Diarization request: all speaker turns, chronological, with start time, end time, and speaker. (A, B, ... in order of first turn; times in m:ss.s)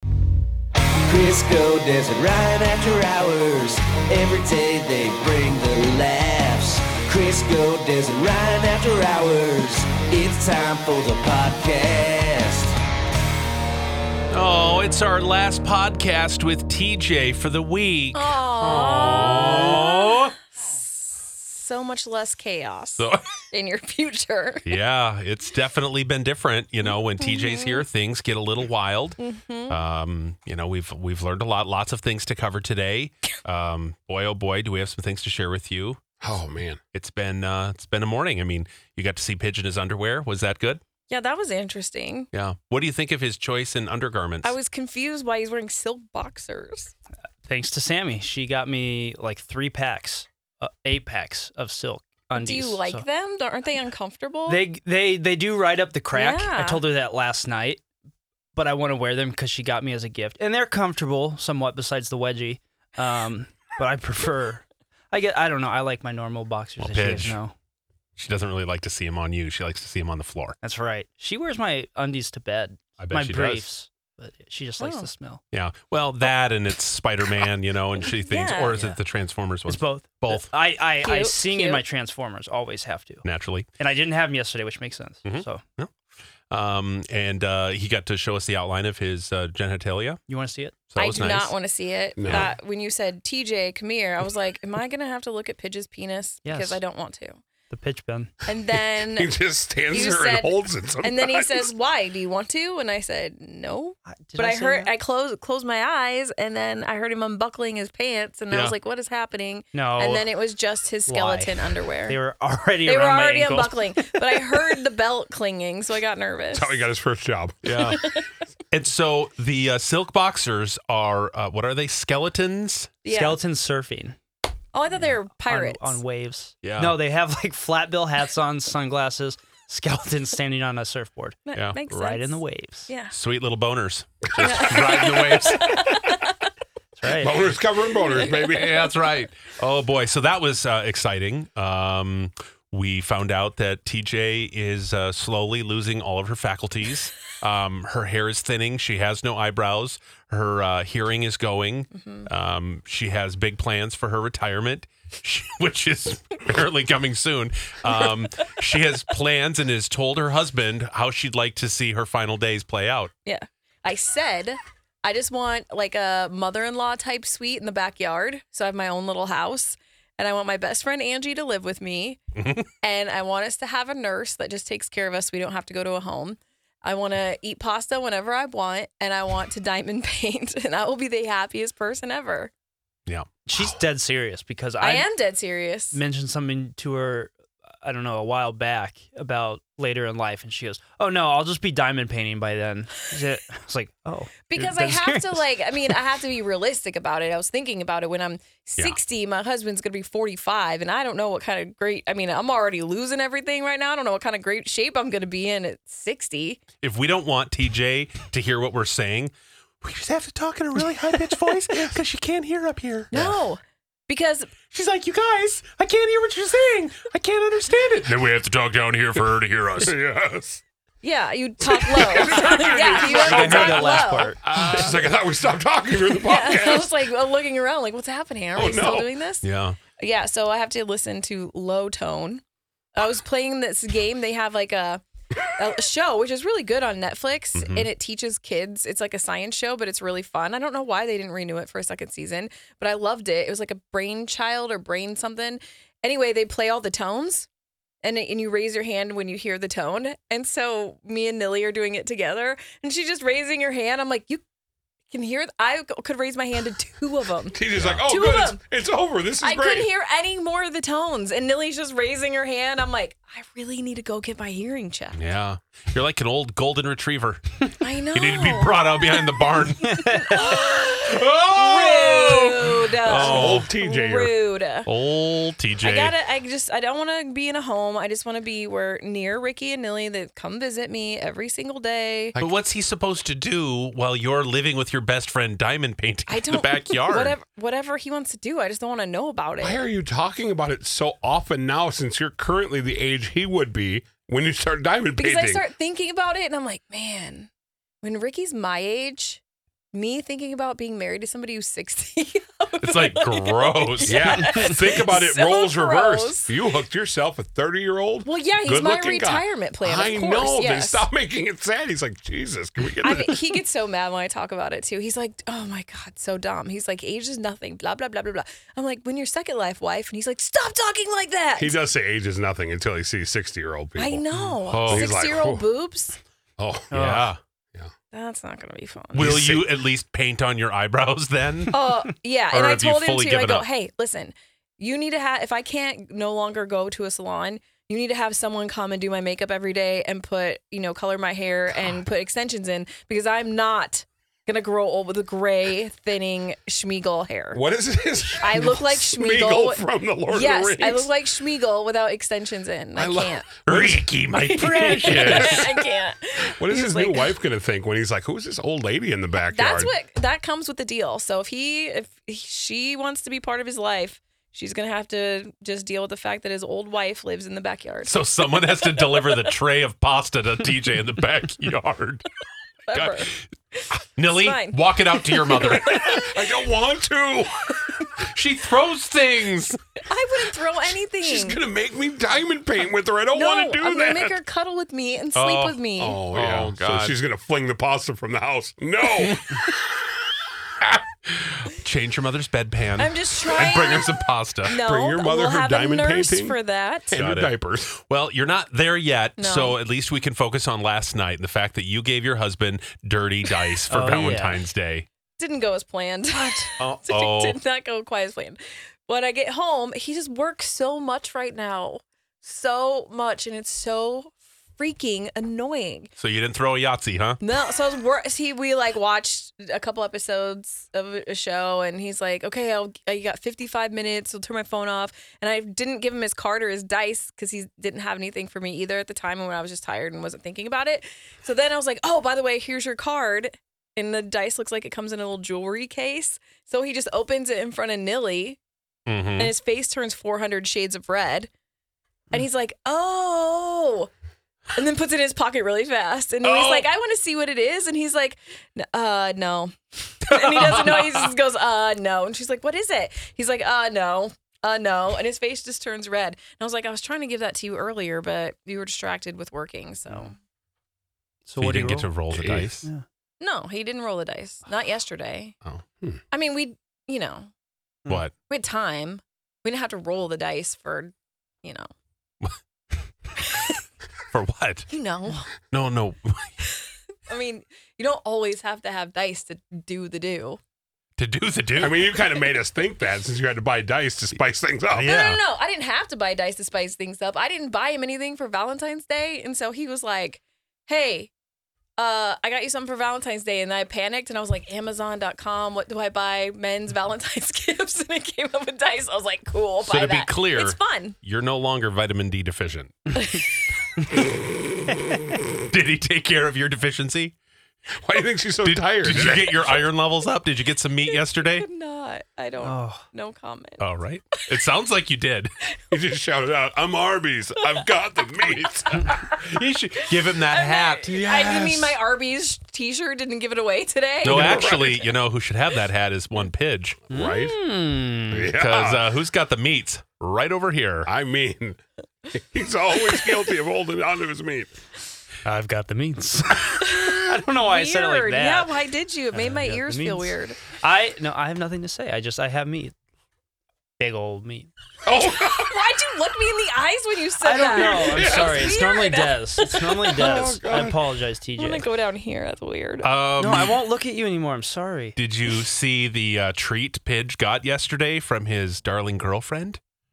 0:01.0-0:12.8 A
0:14.3-0:20.4 B
0:18.1-0:20.3 C
0:21.0-0:24.8 C
0:23.0-0:23.3 B
0:24.7-0:36.0 B
0:26.8-0:27.8 C
0:29.2-0:29.8 C
0:36.2-0:36.8 D
0:36.9-0:40.8 B
0:41.1-0:42.3 C
0:42.3-0:44.5 B
0:44.4-0:46.9 C
0:47.4-0:53.0 E
0:52.3-0:54.6 C
0:54.5-0:57.8 E
0:56.1-0:56.8 C
0:58.5-1:07.5 E
1:06.8-1:07.4 B
1:08.2-1:10.6 B
1:10.6-1:15.4 E
1:13.0-1:13.7 B
1:14.8-1:15.1 C
1:15.5-1:20.5 B
1:18.2-1:18.8 C
1:19.7-1:23.2 E
1:21.0-1:21.8 C
1:23.2-1:23.7 B
1:23.8-1:25.6 E
1:25.2-1:25.9 B
1:26.5-1:30.2 B
1:30.3-1:30.8 E
1:30.9-1:31.5 B
1:31.0-1:37.4 C
1:32.2-1:32.5 D
1:36.4-1:36.8 E
1:37.7-1:38.3 E
1:38.4-1:39.3 C
1:39.1-1:41.7 D
1:39.9-1:52.2 C
1:44.1-1:44.9 E
1:48.5-1:48.8 B
1:49.7-1:50.2 E
1:51.1-1:54.6 E
1:52.8-1:56.8 C
1:56.5-1:57.8 D
1:57.6-1:58.0 B
1:57.9-1:58.2 C
1:58.7-2:02.9 B
2:03.0-2:03.4 C
2:03.1-2:04.2 E
2:04.7-2:06.0 C
2:05.0-2:12.9 E
2:06.6-2:07.0 B
2:11.5-2:13.1 C
2:11.6-2:11.8 B
2:13.1-2:15.8 B
2:14.4-2:16.2 C
2:14.4-2:14.7 D
2:17.0-2:17.6 E
2:17.2-2:18.8 D
2:18.4-2:43.1 B
2:31.9-2:32.3 C
2:43.2-2:52.2 C
2:52.4-2:52.7 B
2:52.8-3:02.5 C
3:03.4-3:05.0 E
3:04.8-3:06.0 C
3:05.9-3:07.3 E
3:07.8-3:15.9 E
3:14.5-3:26.6 C
3:26.8-3:33.4 B
3:33.1-3:34.5 C
3:34.6-3:40.0 B
3:39.8-3:40.6 D
3:41.0-3:44.4 C
3:41.9-3:43.9 D
3:42.9-3:45.1 B
3:43.2-3:44.8 E
3:44.5-3:46.9 D
3:46.2-3:49.5 C
3:48.6-3:49.1 D
3:49.4-3:49.8 B
3:50.0-3:52.4 C
3:52.9-3:55.0 C
3:55.6-4:07.5 C
3:57.6-3:57.9 B
4:08.0-4:14.4 C
4:15.1-4:18.6 C
4:17.5-4:19.9 D
4:17.8-4:18.0 B
4:19.4-4:25.2 C
4:25.2-4:27.4 B
4:27.8-4:28.9 C
4:28.1-4:33.7 B
4:29.8-4:30.4 E
4:29.9-4:34.9 C
4:33.0-4:34.3 D
4:34.9-4:36.2 B
4:35.8-4:42.4 C
4:42.4-4:47.4 B
4:46.3-4:49.8 C
4:49.6-4:55.7 D
4:55.2-4:57.5 C
4:58.0-4:59.4 C
4:59.9-5:06.5 C
5:02.8-5:04.6 B
5:04.1-5:13.6 D
5:08.2-5:11.1 C
5:13.0-5:21.8 C
5:21.6-5:24.2 D
5:24.0-5:26.2 C
5:24.7-5:25.1 B
5:24.9-5:25.7 D
5:26.6-5:27.0 D
5:26.9-5:27.3 E
5:26.9-5:27.4 B
5:28.1-5:29.4 C
5:29.1-5:31.8 B
5:29.2-5:29.7 D
5:31.7-5:47.6 C
5:32.5-5:33.7 B
5:47.5-5:51.1 D
5:48.4-5:53.5 C
5:53.0-5:55.8 D
5:53.7-5:55.7 B
5:54.6-5:57.4 C
5:56.4-5:59.9 D
5:59.4-6:08.1 C
6:08.1-6:12.2 B
6:08.8-6:09.5 C
6:12.9-6:16.4 C
6:12.9-6:13.4 B
6:14.2-6:16.2 B
6:15.8-6:17.6 D
6:18.2-6:19.8 B
6:20.1-6:21.6 C
6:21.2-6:24.4 D
6:23.3-6:26.2 C
6:25.4-6:25.8 B
6:26.0-6:29.6 D
6:26.3-6:27.2 B
6:31.4-6:34.8 B
6:33.0-6:37.2 C
6:34.8-6:36.6 D
6:37.1-6:37.9 D
6:37.1-6:45.1 B
6:39.4-6:39.8 C
6:43.9-6:44.6 E
6:45.4-6:56.1 C
6:46.8-6:47.6 B
6:56.2-6:57.4 B
6:57.4-7:18.6 C
7:19.1-7:19.5 B
7:19.4-7:21.5 C
7:22.3-7:24.1 C
7:24.8-7:40.4 C
7:26.4-7:26.9 B
7:30.3-7:31.3 B
7:41.5-7:42.1 E
7:41.6-7:42.9 B
7:42.4-7:42.7 D
7:43.4-7:45.6 C
7:46.3-7:47.5 C
7:48.1-7:48.3 B
7:48.5-7:51.9 C
7:53.4-7:53.7 C
7:54.3-7:54.9 B
7:54.9-7:55.5 C
7:55.7-7:56.5 B
7:57.3-8:00.6 C
8:01.2-8:02.1 B
8:01.8-8:05.1 D
8:04.9-8:05.4 B
8:05.0-8:11.3 C
8:12.0-8:21.2 C
8:19.8-8:23.3 B
8:25.7-8:27.3 B
8:28.0-8:29.8 D
8:28.6-8:31.7 B
8:31.1-8:33.8 C
8:32.6-8:33.0 E
8:33.8-8:35.5 B
8:35.9-8:39.2 D
8:39.4-8:41.9 B
8:40.5-8:44.9 C
8:44.2-8:47.0 B
8:44.2-8:45.1 D
8:47.1-8:47.6 D
8:47.1-8:48.5 E
8:48.3-8:49.0 D
8:48.5-8:51.1 B
8:51.0-8:51.8 D
8:52.3-8:54.7 D
8:55.4-8:58.7 E
8:56.8-9:00.6 C
8:59.3-9:02.9 E
9:04.0-9:04.7 E
9:05.0-9:05.8 D
9:05.2-9:10.6 C
9:07.4-9:11.9 E
9:07.7-9:08.8 D
9:10.1-9:10.9 D
9:11.6-9:13.1 C
9:13.0-9:13.8 B
9:13.4-9:15.2 E
9:15.2-9:19.8 B